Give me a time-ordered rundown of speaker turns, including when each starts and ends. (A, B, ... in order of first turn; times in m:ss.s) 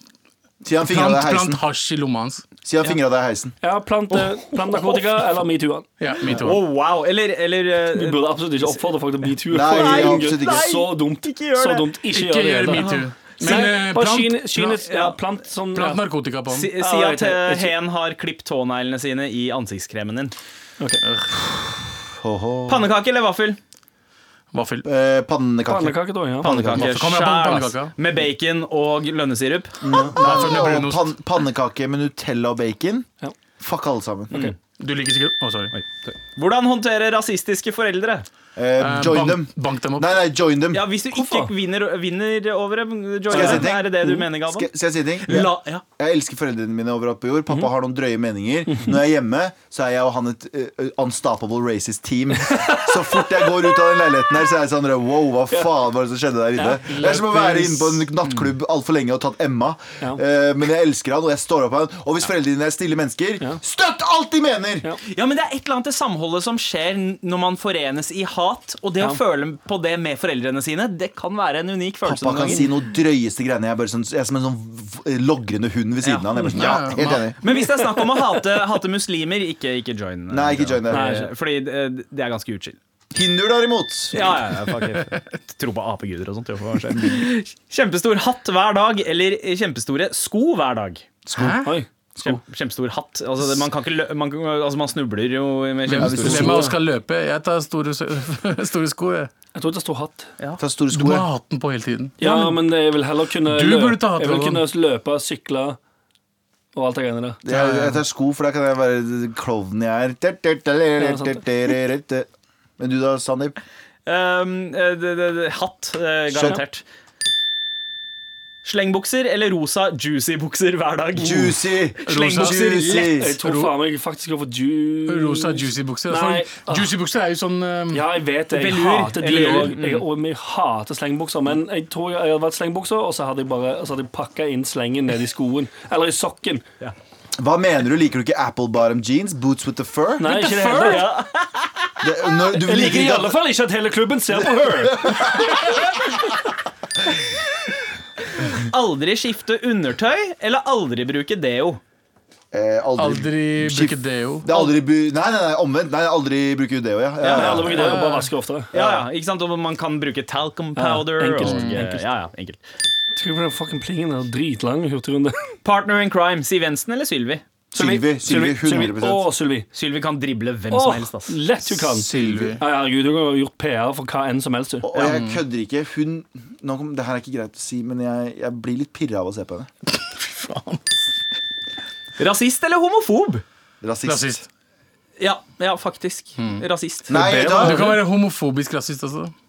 0:00.6-0:01.6 A
0:00.8-0:02.5 B
0:02.6-0:03.6 A
0:03.6-0:05.9 C
0:04.1-0:05.0 D
0:06.0-0:06.6 B
0:06.3-0:08.9 D
0:07.9-0:12.9 C
0:09.5-0:10.9 A
0:09.6-0:11.9 D
0:12.1-0:14.8 B
0:12.7-0:13.7 D
0:13.4-0:16.0 C
0:14.9-0:15.2 D
0:15.7-0:16.7 B
0:16.5-0:20.3 D
0:16.8-0:17.7 C
0:21.0-0:21.4 B
0:22.2-0:22.9 A
0:22.7-0:23.6 D
0:24.5-0:24.9 B
0:24.8-0:27.0 A
0:25.7-0:26.6 C
0:26.4-0:30.1 D
0:26.8-0:27.9 B
0:29.8-0:33.1 A
0:30.2-0:31.2 B
0:33.6-0:34.5 A
0:34.8-0:35.7 B
0:35.7-0:38.3 D
0:38.6-0:40.8 A
0:38.8-0:40.2 B
0:40.7-0:44.7 D
0:41.1-0:41.5 C
0:43.3-0:44.2 C
0:43.3-1:04.9 A
0:45.3-0:45.8 D
0:48.7-0:49.0 C
0:52.4-0:53.8 D
0:56.6-0:58.1 C
1:05.1-1:12.7 D
1:12.0-1:17.4 A
1:12.4-1:12.6 C
1:16.0-1:22.8 D
1:16.6-1:17.3 B
1:20.3-1:21.2 A
1:20.9-1:21.3 C
1:23.1-1:24.3 A
1:24.1-1:31.1 D
1:31.3-1:31.6 A
1:31.3-1:31.7 B
1:31.6-1:32.4 C
1:32.2-1:36.7 D
1:35.9-1:39.3 B
1:36.0-1:36.8 A
1:39.6-1:40.3 C
1:40.6-1:41.3 A
1:40.9-1:42.6 B
1:42.2-1:45.8 C
1:43.4-1:44.6 B
1:46.8-1:47.4 C
1:47.5-1:52.3 A
1:47.5-1:48.0 B
1:51.0-1:51.4 C
1:52.8-1:53.6 A
1:54.1-1:56.8 D
1:56.3-1:56.6 A
1:58.6-2:03.1 D
2:01.2-2:03.4 A
2:02.1-2:02.9 B
2:02.8-2:06.9 C
2:03.4-2:03.7 B
2:05.1-2:08.0 B
2:07.9-2:16.6 C
2:08.5-2:10.0 D
2:09.2-2:09.8 B
2:17.4-2:20.4 A
2:20.2-2:21.1 C
2:20.2-2:21.9 D
2:22.0-2:23.4 A
2:22.6-2:25.2 C
2:24.7-2:25.5 A
2:28.4-2:31.8 D
2:32.5-2:38.0 A
2:33.0-2:34.5 B
2:37.2-2:38.2 D
2:37.3-2:38.7 C
2:38.7-2:39.0 A
2:38.7-2:42.6 D
2:40.8-2:42.0 C
2:41.4-2:41.8 B
2:43.2-2:45.4 C
2:45.6-2:47.4 D
2:47.7-2:49.3 A
2:47.8-2:49.7 C
2:49.7-2:51.4 D
2:50.7-2:54.9 C
2:51.8-2:52.6 A
2:52.0-2:52.6 B
2:54.8-2:59.7 A
2:54.9-2:55.2 D
2:55.0-2:55.4 B
3:00.0-3:00.8 B
3:02.2-3:03.4 D
3:03.8-3:04.4 A
3:04.1-3:04.4 B
3:05.2-3:07.1 D
3:06.4-3:06.6 B
3:07.1-3:08.0 C
3:07.1-3:07.9 A
3:07.2-3:09.3 B